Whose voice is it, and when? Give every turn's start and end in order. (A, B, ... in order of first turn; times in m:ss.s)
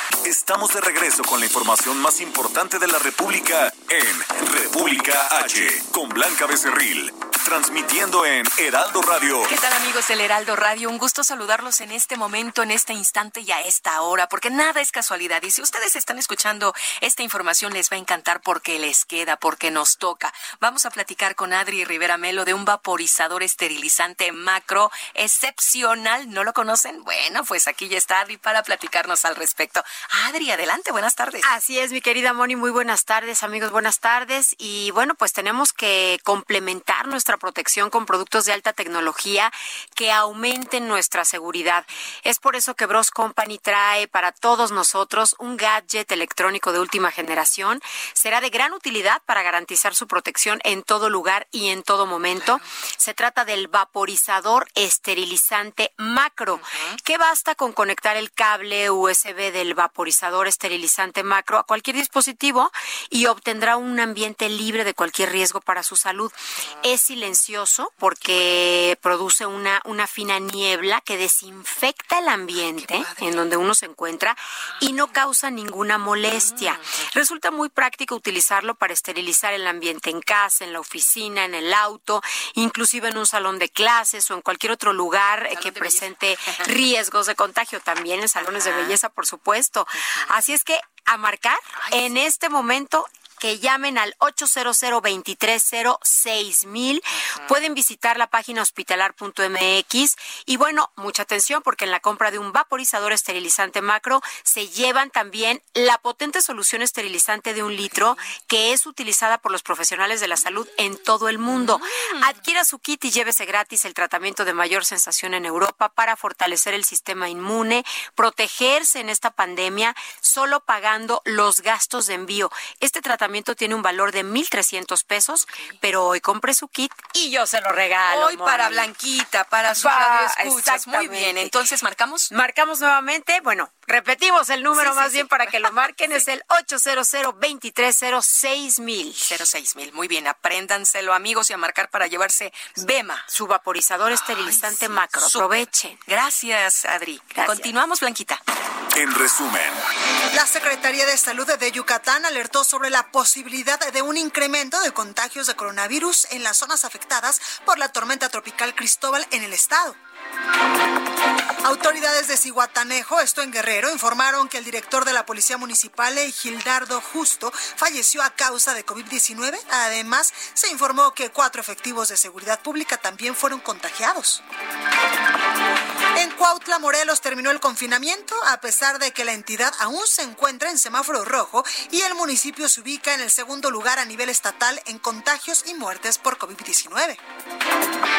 0:00.2-0:09.5 A
0:09.5-0:31.5 B
0:31.4-2:08.9 C
1:25.5-1:26.7 B
1:28.4-1:29.0 B
1:31.8-1:32.2 B
1:51.5-1:52.3 B
2:08.1-2:12.3 B
2:09.7-2:11.6 C
2:12.3-2:19.3 C
2:14.7-2:16.2 B
2:19.2-2:23.2 B
2:23.3-2:26.0 C
2:24.1-2:28.4 B
2:27.4-2:27.7 C
2:28.9-2:29.8 A
2:30.3-2:40.0 D
2:41.6-2:54.4 D
2:56.2-3:07.2 D